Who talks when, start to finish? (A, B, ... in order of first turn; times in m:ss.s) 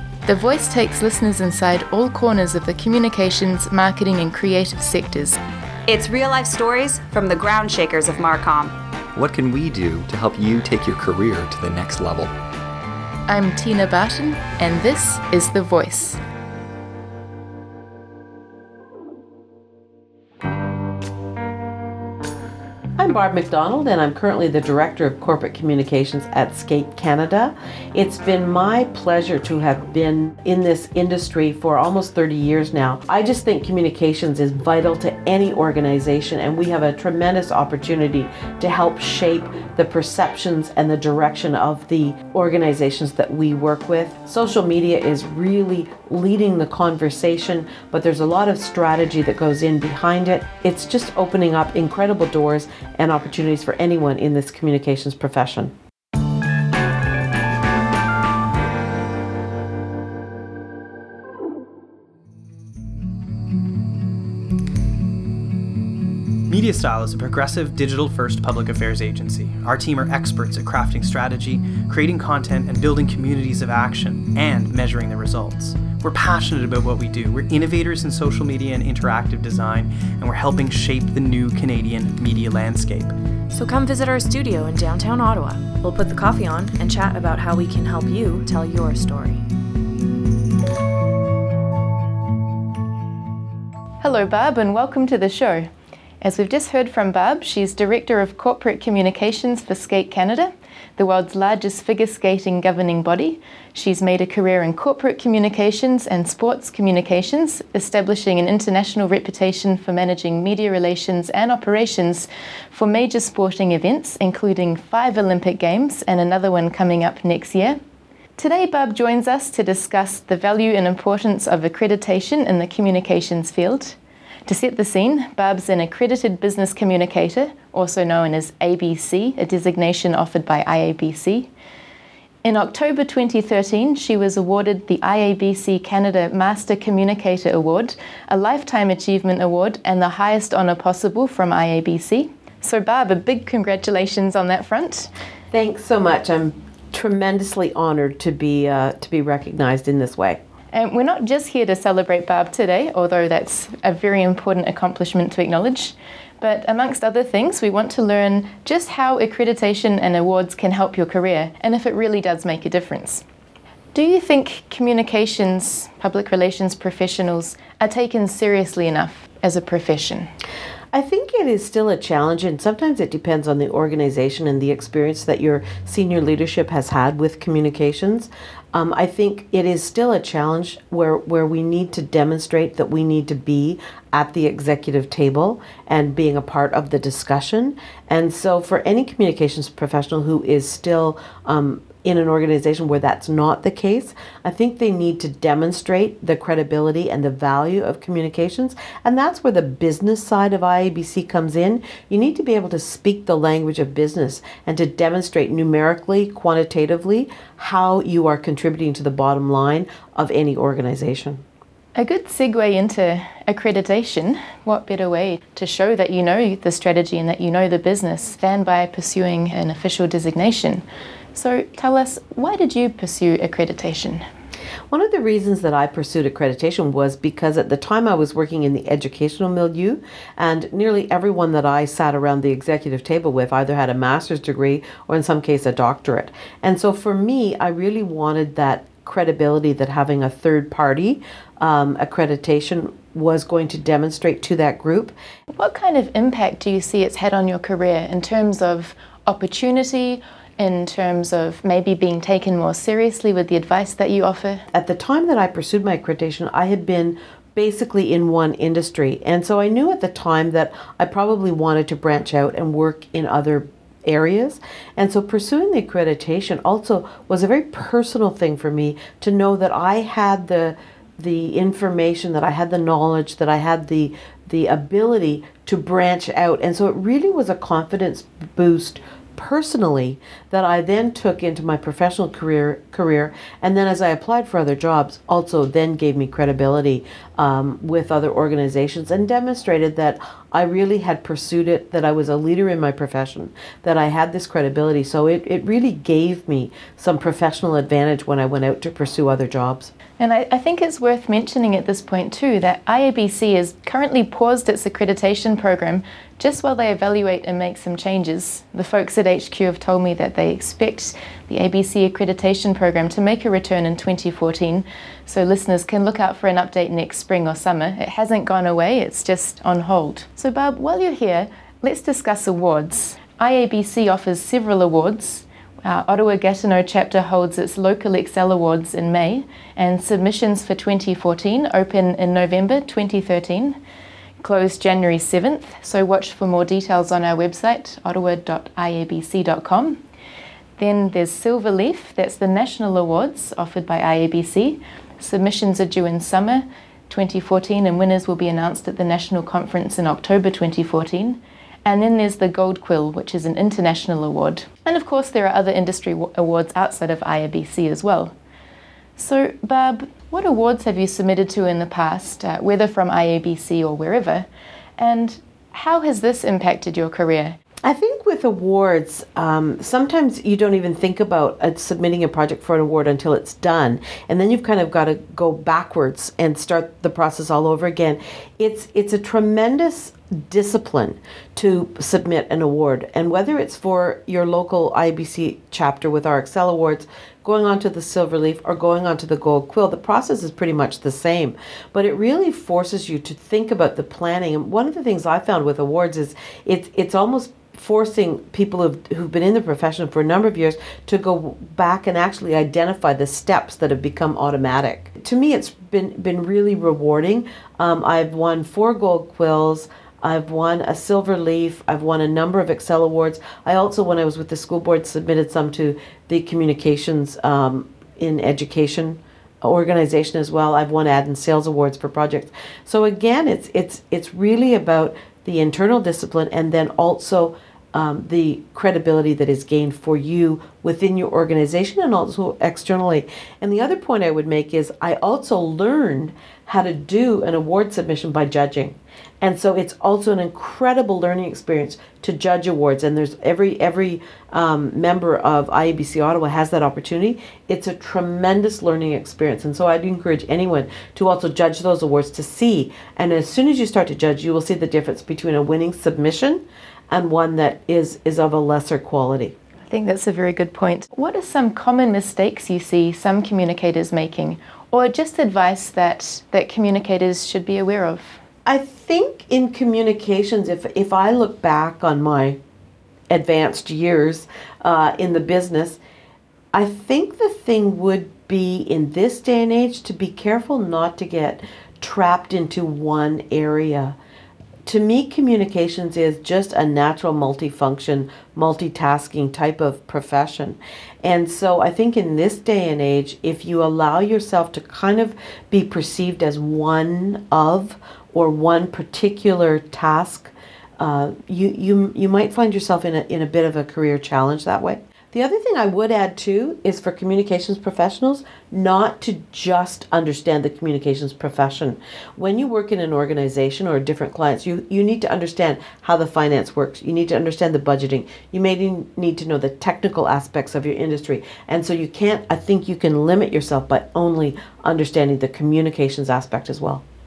0:00.2-0:05.4 A
0:05.9-0:08.7 B
0:09.2-0:12.3 C
0:13.3-0:16.2 A
0:23.0-0:55.7 D
1:06.5-1:23.1 E
1:23.5-1:29.4 F
1:34.0-1:35.7 A
1:36.2-1:57.8 A
1:58.4-2:11.5 A
2:12.4-2:25.1 A
2:25.5-2:30.4 D
2:30.7-2:43.2 A
2:43.9-2:50.3 A
2:50.9-3:31.4 D
3:32.0-3:40.8 A
3:41.3-3:44.2 A
3:44.9-4:05.2 D
4:05.5-4:14.7 A
4:14.7-4:59.9 D
5:00.2-5:33.8 A
5:34.4-5:40.0 A
5:40.8-5:58.3 A
5:59.2-6:07.6 A
6:07.8-7:39.6 D
7:39.9-7:48.4 A
7:48.7-7:52.6 D
7:53.3-7:56.0 D
7:56.7-8:04.2 D
8:04.8-8:47.0 D